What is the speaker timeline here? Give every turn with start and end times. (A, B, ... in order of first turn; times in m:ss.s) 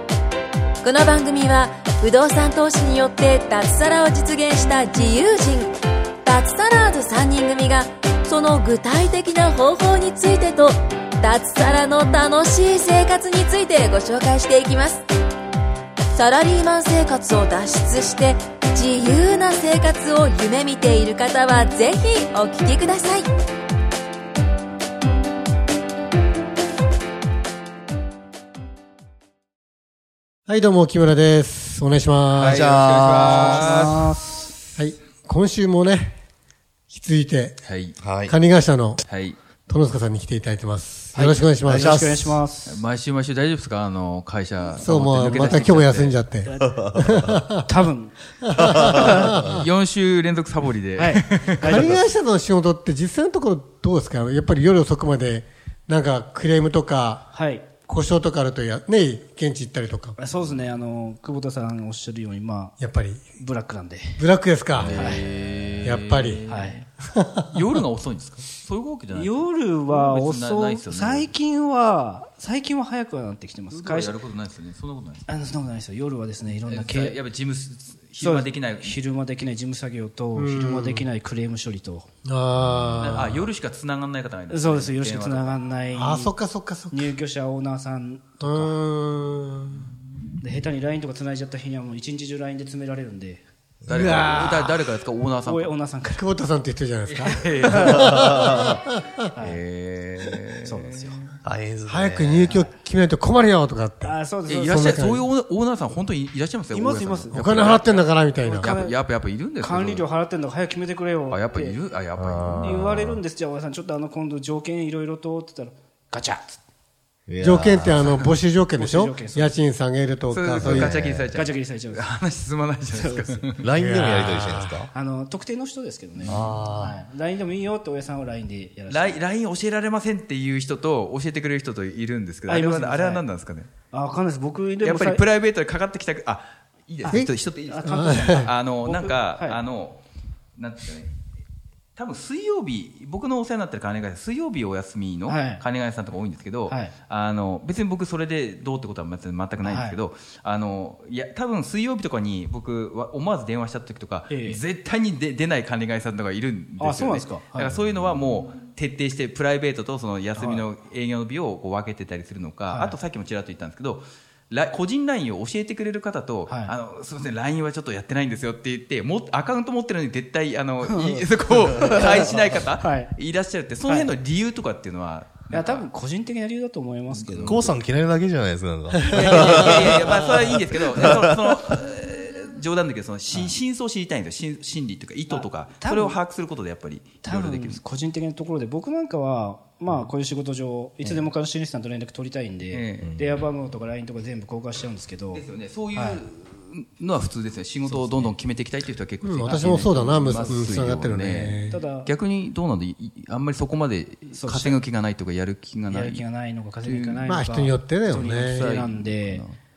0:00.8-0:05.7 A
0:06.2-0:15.0 A
0:16.1-0:23.3 A
0:30.5-0:32.7 B
0:32.3-0:34.5 C
0:32.5-0:33.8 D
0:33.2-0:34.2 E
0:34.8-0:36.2 B
0:36.9-0:37.6 B
0:37.6-0:38.0 C
0:38.0-0:38.4 D
0:38.2-0:39.0 B
0:39.0-0:39.4 C
0:39.7-0:42.4 B
0:41.1-0:42.8 E
0:41.7-0:42.3 D
0:42.7-0:46.2 C
0:44.7-0:47.7 B
0:46.4-0:46.9 E
0:46.6-0:47.4 D
0:47.6-0:48.2 E
0:48.4-0:49.7 B
0:48.6-0:49.4 D
0:48.9-0:49.3 E
0:49.4-0:51.8 C
0:51.0-0:52.1 E
0:51.6-0:57.2 B
0:57.3-0:57.8 E
0:57.8-1:00.2 B
1:00.2-1:04.3 E
1:02.8-1:03.4 B
1:04.2-1:05.0 B
1:04.8-1:05.3 E
1:04.8-1:06.9 C
1:05.8-1:06.4 B
1:06.5-1:06.9 E
1:07.0-1:07.6 B
1:07.5-1:11.3 C
1:09.1-1:14.2 E
1:13.7-1:15.2 C
1:15.3-1:17.2 E
1:16.7-1:19.0 C
1:18.2-1:22.1 E
1:20.4-1:21.1 B
1:22.2-1:23.5 B
1:22.9-1:25.6 C
1:24.5-1:28.8 E
1:25.9-1:27.1 B
1:28.4-1:29.9 B
1:30.4-1:33.4 E
1:33.8-1:34.2 D
1:33.9-1:35.7 C
1:33.9-1:34.9 B
1:35.4-1:36.5 E
1:36.1-1:39.3 B
1:37.0-1:38.7 C
1:37.5-1:37.9 E
1:37.7-1:38.8 D
1:39.4-1:41.2 C
1:40.6-1:41.2 E
1:41.4-1:42.6 D
1:41.9-1:44.2 B
1:42.5-1:42.7 E
1:44.0-1:45.0 E
1:44.4-1:50.1 C
1:44.7-1:45.3 B
1:46.7-1:47.9 E
1:47.3-1:48.8 B
1:48.4-1:49.0 E
1:49.6-1:51.8 E
1:51.3-1:52.7 C
1:52.2-1:53.2 D
1:52.6-1:56.6 E
1:57.3-1:58.2 D
1:57.4-2:01.1 B
1:58.7-1:59.6 E
2:00.3-2:03.6 C
2:00.6-2:01.3 D
2:01.3-2:02.1 E
2:02.9-2:03.5 E
2:03.6-2:04.9 D
2:03.8-2:04.8 B
2:04.9-2:09.2 E
2:06.2-2:07.0 C
2:06.3-2:07.0 D
2:08.9-2:13.7 C
2:12.5-2:13.2 E
2:13.9-2:15.3 E
2:14.8-2:20.0 C
2:17.1-2:18.5 B
2:17.4-2:19.6 E
2:20.6-2:21.1 C
2:22.0-2:55.9 C
2:25.3-2:25.6 E
2:26.7-2:27.0 E
2:29.6-2:30.0 E
2:34.3-2:34.6 E
2:36.8-2:37.8 E
2:40.4-2:40.7 E
2:42.7-2:43.0 E
2:46.5-2:46.7 E
2:50.8-2:53.1 E
2:53.9-2:54.1 E
2:55.5-2:57.7 E
2:57.1-2:57.7 C
2:57.4-3:01.6 D
2:59.1-3:07.8 C
3:05.3-3:06.2 E
3:07.2-3:16.2 E
3:12.7-3:13.2 C
3:13.0-3:13.5 D
3:15.3-3:26.3 C
3:17.8-3:18.4 E
3:19.2-3:21.8 B
3:19.4-3:20.8 E
3:21.7-3:22.1 E
3:24.3-3:24.8 E
3:25.9-3:29.4 E
3:26.8-3:27.3 C
3:27.3-3:28.6 B
3:28.4-3:29.6 C